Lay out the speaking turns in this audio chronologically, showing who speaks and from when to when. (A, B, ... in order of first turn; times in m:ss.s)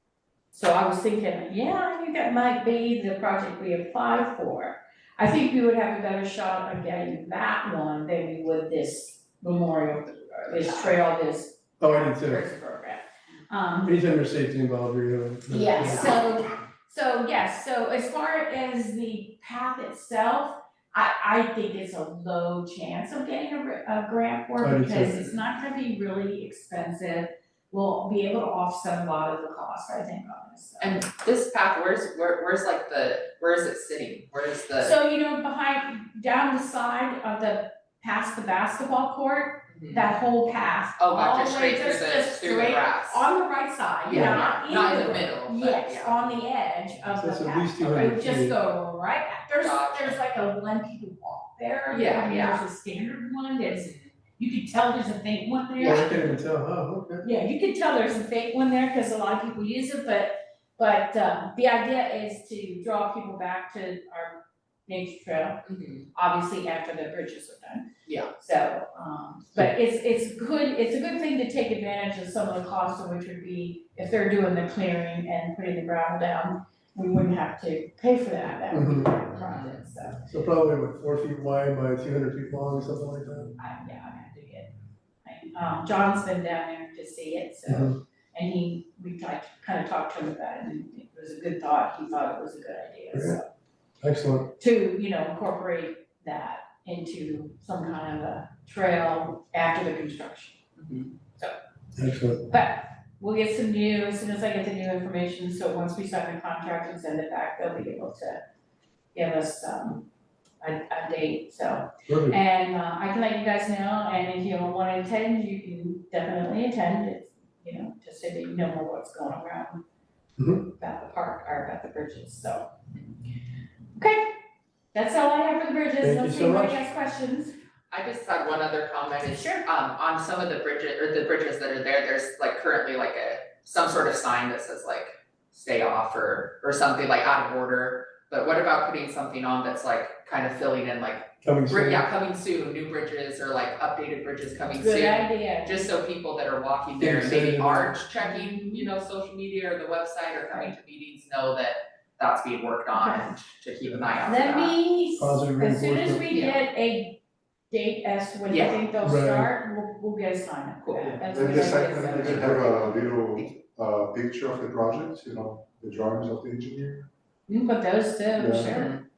0:00.5-0:14.0 A
0:10.6-0:10.9 B
0:11.8-0:12.4 C
0:13.8-0:16.1 C
0:15.5-0:31.0 A
0:24.6-0:25.1 C
0:25.0-0:25.4 B
0:30.8-0:35.0 B
0:34.8-0:56.4 A
0:39.7-0:40.1 B
0:41.0-0:43.3 B
0:44.0-0:46.4 B
0:44.1-0:44.5 C
0:47.1-0:48.6 C
0:49.6-0:50.2 B
0:51.9-0:52.6 B
0:53.6-0:54.1 B
0:55.8-0:56.1 B
0:55.8-0:57.3 C
0:57.2-1:20.2 A
1:05.6-1:06.0 B
1:18.7-1:19.2 C
1:19.4-1:19.8 B
1:20.3-1:23.6 C
1:23.6-1:24.7 A
1:25.2-1:33.5 A
1:27.7-1:27.9 C
1:34.0-1:34.4 C
1:34.6-1:40.7 A
1:40.8-1:41.1 B
1:41.3-1:41.5 A
1:42.0-1:42.4 C
1:42.4-1:48.4 A
1:49.1-1:50.1 A
1:50.6-1:59.8 A
1:52.1-1:52.4 C
2:00.6-2:02.7 A
2:04.0-2:04.4 A
2:04.9-2:07.6 A
2:06.0-2:06.9 C
2:07.9-2:34.8 B
2:09.2-2:09.6 A
2:21.4-2:22.0 C
2:24.8-2:25.9 A
2:27.0-2:27.9 C
2:28.2-2:28.9 A
2:32.9-2:33.3 A
2:34.2-2:37.2 A
2:35.2-2:36.2 C
2:36.3-2:36.6 B
2:37.7-2:42.9 A
2:38.5-2:38.8 B
2:39.0-2:39.5 C
2:40.8-2:41.1 B
2:41.3-2:47.1 D
2:42.1-2:43.5 B
2:47.5-2:49.0 A
2:48.3-2:48.8 D
2:48.7-2:49.0 B